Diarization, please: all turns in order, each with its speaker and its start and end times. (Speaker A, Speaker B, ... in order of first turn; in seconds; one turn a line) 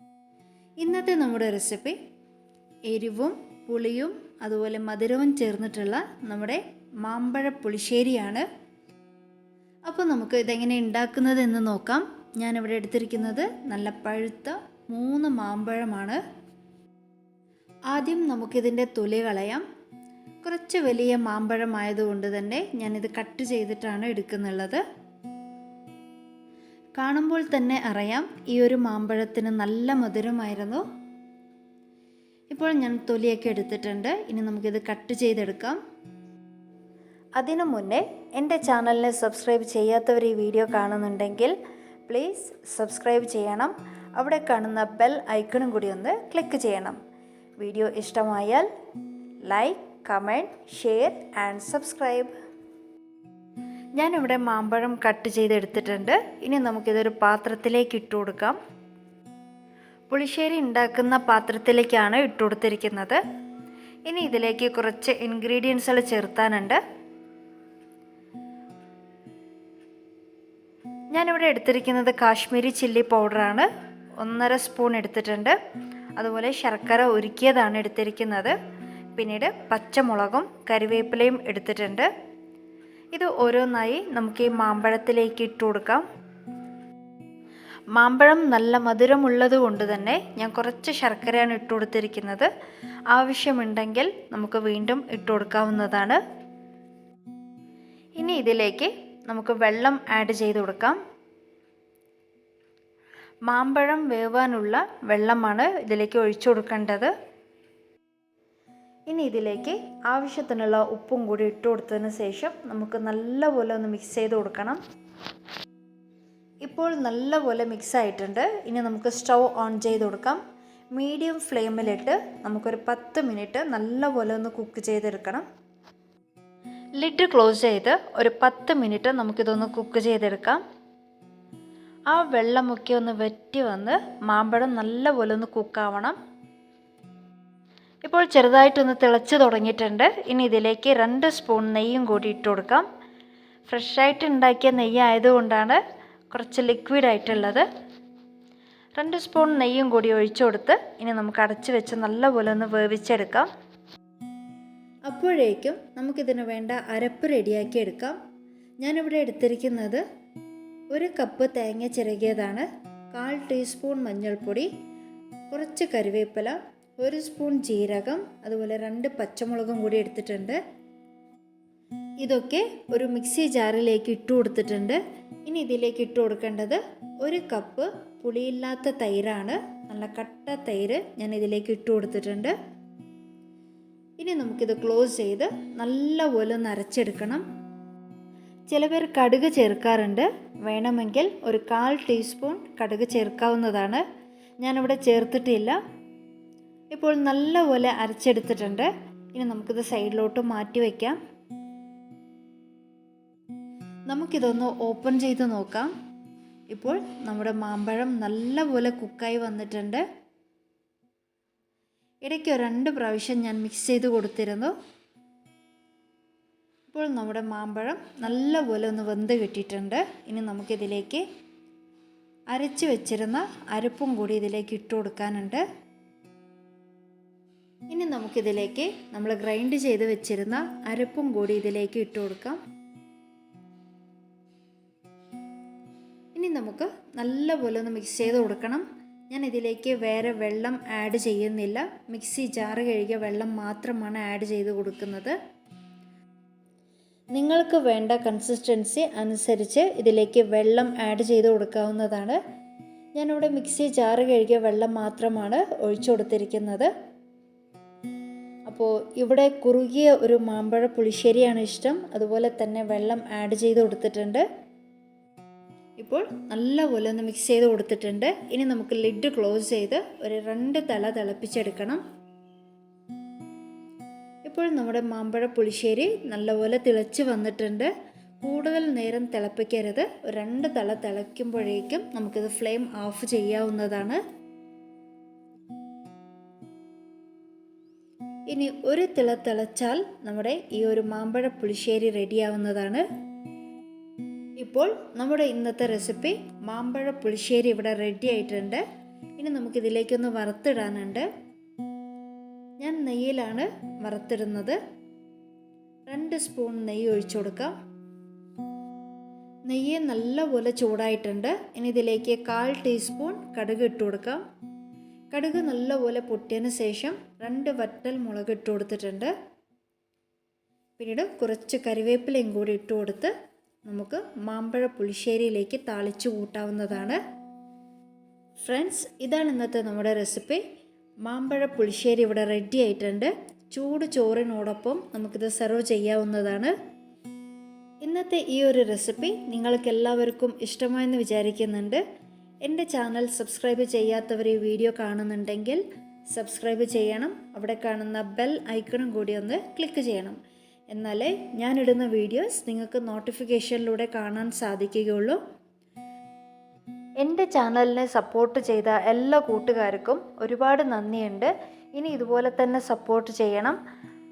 Speaker A: 0.8-2.0
Speaker A: 2.9-8.4
Speaker A: 9.9-16.2
Speaker A: 17.9-19.6
Speaker A: 20.4-24.8
Speaker A: 27.0-30.8
Speaker A: 32.5-35.8
Speaker A: 37.4-41.6
Speaker A: 42.1-47.0
Speaker A: 47.6-48.7
Speaker A: 49.5-52.3
Speaker A: 54.0-58.6
Speaker A: 60.1-63.2
Speaker A: 64.1-66.8
Speaker A: 71.1-75.6
Speaker A: 76.2-78.5
Speaker A: 79.2-82.1
Speaker A: 83.1-86.0
Speaker A: 88.0-92.5
Speaker A: 93.1-96.2
Speaker A: 98.2-101.0
Speaker A: 103.5-107.1
Speaker A: 109.1-114.8
Speaker A: 116.6-120.4
Speaker A: 121.0-125.4
Speaker A: 127.0-130.6
Speaker A: 132.1-136.2
Speaker A: 138.1-142.9
Speaker A: 143.7-145.8
Speaker A: 146.3-147.7
Speaker A: 149.0-153.5
Speaker A: 155.1-158.2
Speaker A: 158.8-160.0
Speaker A: 160.9-164.7
Speaker A: 165.5-170.6
Speaker A: 172.2-182.5
Speaker A: 184.2-187.4
Speaker A: 188.7-194.0
Speaker A: 194.6-195.8
Speaker A: 196.9-201.2
Speaker A: 204.1-205.9
Speaker A: 206.7-210.0
Speaker A: 212.2-214.7
Speaker A: 216.9-221.2
Speaker A: 222.5-225.6
Speaker A: 227.9-232.6
Speaker A: 236.3-245.3
Speaker A: 247.3-252.4
Speaker A: 253.2-256.9
Speaker A: 258.7-264.4
Speaker A: 266.0-272.0
Speaker A: 274.5-277.9
Speaker A: 278.4-284.2
Speaker A: 288.5-293.0
Speaker A: 294.6-298.8
Speaker A: 299.4-301.3
Speaker A: 302.8-304.8
Speaker A: 306.1-307.7
Speaker A: 309.7-314.4
Speaker A: 315.3-319.3
Speaker A: 321.0-323.3
Speaker A: 323.9-327.2
Speaker A: 328.6-330.6
Speaker A: 331.2-336.7
Speaker A: 338.0-342.0
Speaker A: 342.6-350.4
Speaker A: 350.9-355.4
Speaker A: 357.2-363.8